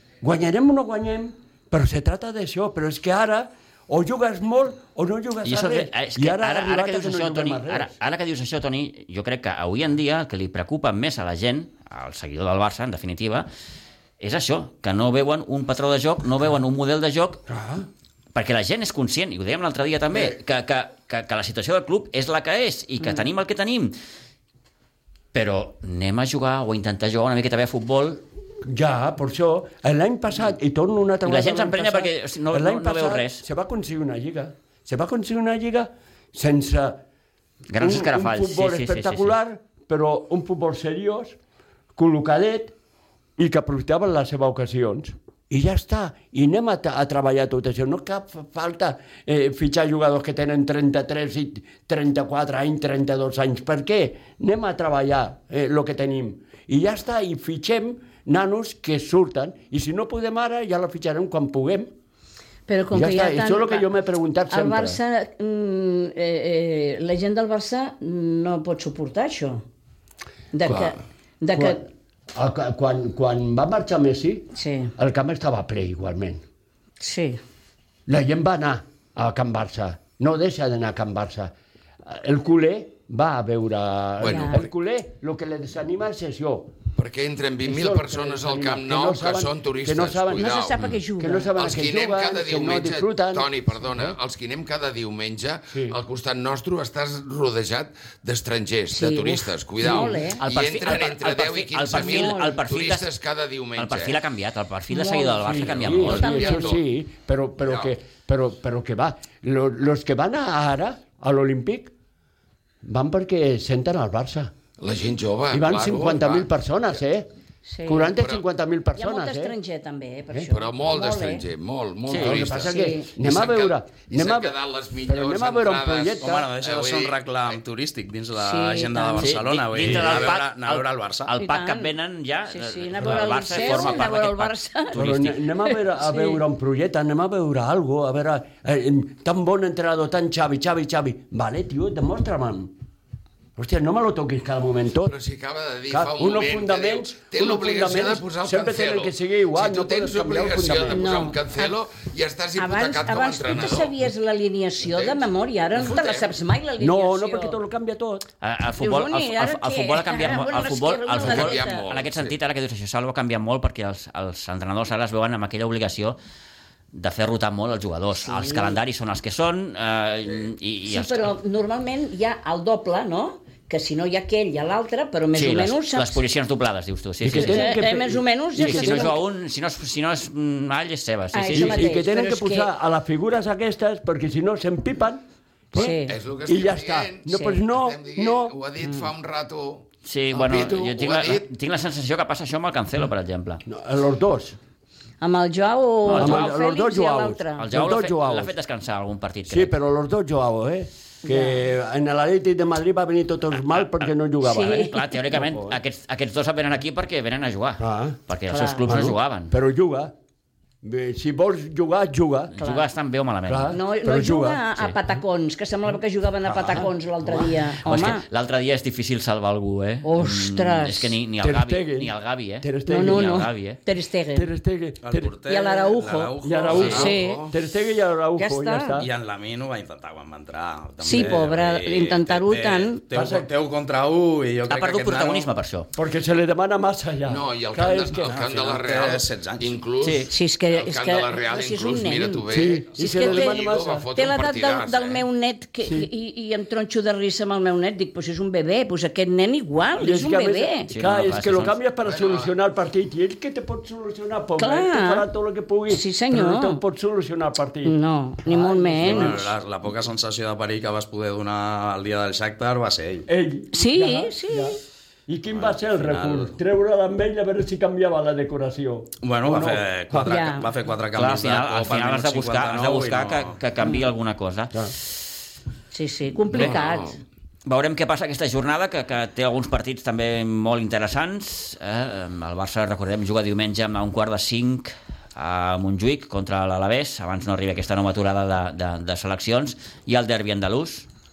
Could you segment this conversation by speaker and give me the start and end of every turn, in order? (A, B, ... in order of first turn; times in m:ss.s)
0:00.2-0:08.0 A
0:05.4-0:13.5 B
0:14.2-0:17.4 B
0:17.5-0:17.9 A
0:18.3-0:24.0 B
0:23.0-0:23.3 C
0:25.3-0:28.2 B
0:28.6-0:37.0 A
0:31.2-0:33.4 B
0:37.7-0:39.4 B
0:37.8-0:41.4 A
0:42.0-0:42.8 A
0:43.4-1:01.9 A
1:02.7-1:03.9 C
1:02.9-1:05.0 A
1:04.5-1:09.6 C
1:10.5-1:11.8 C
1:10.6-1:10.9 A
1:11.5-1:16.4 A
1:14.6-1:14.9 C
1:17.0-1:17.4 C
1:18.1-1:21.5 A
1:22.0-1:26.8 A
1:24.2-1:24.7 D
1:24.3-1:24.6 C
1:27.0-1:30.9 D
1:27.6-1:30.5 A
1:30.4-1:31.5 C
1:31.2-1:34.2 A
1:31.6-1:44.2 D
1:35.7-1:36.0 A
1:38.9-1:40.4 C
1:39.8-1:40.2 A
1:40.4-1:43.1 B
1:41.9-1:42.6 C
1:43.8-1:46.3 B
1:44.9-1:46.8 C
1:45.4-1:51.9 A
1:45.9-1:46.8 D
1:47.6-1:47.9 D
1:52.8-1:54.5 A
1:54.8-1:56.5 D
1:55.5-1:57.3 A
1:57.7-1:58.2 C
1:57.9-1:59.6 A
1:58.1-1:58.4 D
1:59.0-2:01.4 C
2:00.5-2:07.6 D
2:02.1-2:02.4 B
2:02.2-2:06.5 A
2:02.7-2:03.1 C
2:06.2-2:11.3 E
2:08.4-2:09.4 C
2:09.2-2:15.4 B
2:09.8-2:10.1 A
2:11.4-2:11.9 C
2:12.5-2:15.0 C
2:13.0-2:14.0 A
2:14.9-2:22.7 A
2:16.0-2:16.4 C
2:23.6-2:25.1 A
2:25.0-2:33.9 D
2:25.9-2:31.2 A
2:30.9-2:31.7 C
2:32.6-2:37.6 C
2:34.8-2:36.4 D
2:36.8-2:38.3 A
2:38.4-2:46.2 B
2:38.8-2:41.9 C
2:41.2-2:42.4 D
2:46.9-2:51.3 B
2:48.2-2:48.8 C
2:50.8-2:56.2 C
2:55.3-2:57.8 B
2:57.2-2:59.2 A
2:57.4-2:59.2 C
2:58.6-3:02.0 B
3:01.3-3:02.7 C
3:01.5-3:08.6 A
3:05.7-3:06.2 C
3:05.8-3:11.5 D
3:07.3-3:07.6 C
3:10.0-3:13.6 B
3:13.7-3:14.6 A
3:15.2-3:17.7 C
3:16.0-3:16.6 B
3:16.2-3:18.5 A
3:17.6-3:19.7 B
3:19.5-3:25.8 A
3:21.2-3:21.6 C
3:23.7-3:29.6 B
3:24.4-3:25.0 C
3:27.8-3:28.2 A
3:28.5-3:29.1 C
3:28.9-3:30.1 A
3:30.8-3:32.5 A
3:32.6-3:32.9 C
3:32.6-3:33.8 B
3:33.5-3:34.6 A
3:33.7-3:38.2 C
3:36.4-3:37.6 A
3:37.8-3:43.8 B
3:40.0-3:41.2 C
3:41.4-3:43.5 A
3:42.9-3:44.5 C
3:44.3-3:45.4 A
3:45.0-3:47.4 E
3:45.5-3:47.5 C
3:46.4-3:49.1 A
3:46.7-3:47.4 D
3:48.4-3:49.0 C
3:49.0-3:55.5 E
3:51.0-3:53.0 C
3:51.1-3:51.4 A
3:53.1-3:53.5 A
3:54.7-3:55.9 B
3:55.9-3:58.4 A
3:57.2-4:05.2 D
3:58.3-3:59.8 E
4:00.0-4:00.3 B
4:00.3-4:02.4 C
4:02.5-4:04.1 A
4:03.0-4:10.9 C
4:10.0-4:19.5 A
4:10.9-4:11.8 B
4:12.0-4:12.5 D
4:14.6-4:15.3 C
4:15.9-4:16.8 C
4:17.8-4:19.5 C
4:19.0-4:23.3 E
4:23.3-4:30.4 A
4:23.7-4:24.8 C
4:25.5-4:26.6 E
4:29.2-4:33.6 E
4:30.3-4:30.7 C
4:31.1-4:34.9 B
4:35.9-4:37.2 C
4:36.5-4:37.2 D
4:37.7-4:51.1 B